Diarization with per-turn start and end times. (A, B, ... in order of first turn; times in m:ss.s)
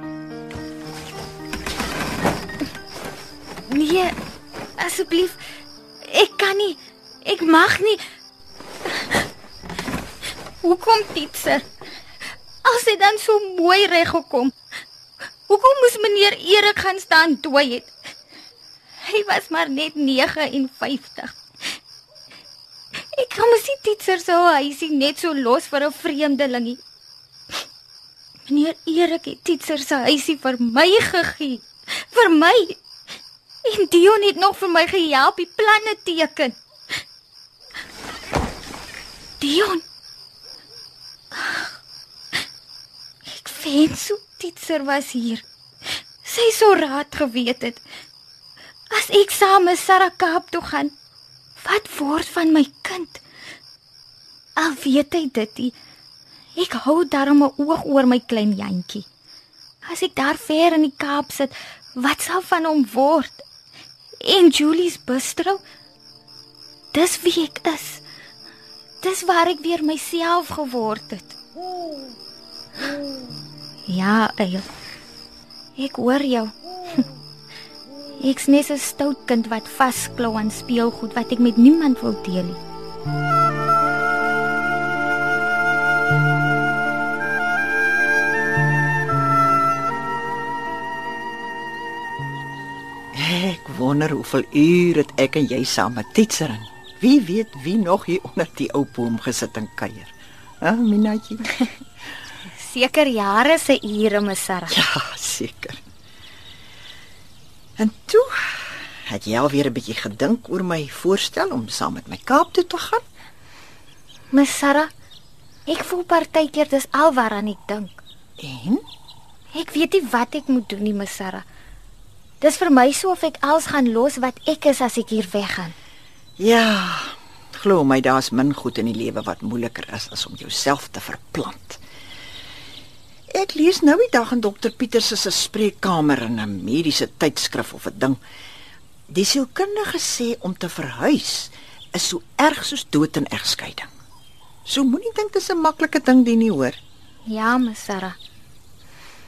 0:03.7-0:04.1 A
0:04.8-0:05.4 A
0:06.0-0:08.0 A
0:08.9-0:09.2 A
0:10.6-0:11.6 A
0:12.6-0:14.5 A
0:15.5-0:17.9 A
0:19.0-0:21.4 A
0:23.1-0:26.8 A
0:28.5-0:32.8 A
0:33.6-0:36.6 A
0:39.4-0:39.8 A
0:41.3-0:41.7 A
0:43.3-0:45.4 A
0:46.2-0:47.8 A
0:48.9-0:50.9 A
0:51.6-0:53.2 A
0:54.6-0:55.7 A
0:56.6-0:59.0 A
0:59.8-1:03.4 A
1:04.2-1:05.6 A
1:06.9-1:08.0 A
1:09.0-1:11.4 A
1:13.9-1:14.6 A
1:15.8-1:17.0 A
1:18.2-1:22.6 A
1:33.1-1:41.5 B
1:42.5-1:44.8 A
1:44.7-1:45.8 B
1:47.8-1:53.0 B
1:54.3-1:54.9 A
1:55.7-1:58.0 A
1:58.4-1:58.8 B
1:59.5-2:01.4 A
2:02.4-2:05.7 A
2:06.4-2:11.8 B
2:13.3-2:18.2 B
2:19.1-2:23.9 B
2:24.6-2:26.8 B
2:27.3-2:28.2 A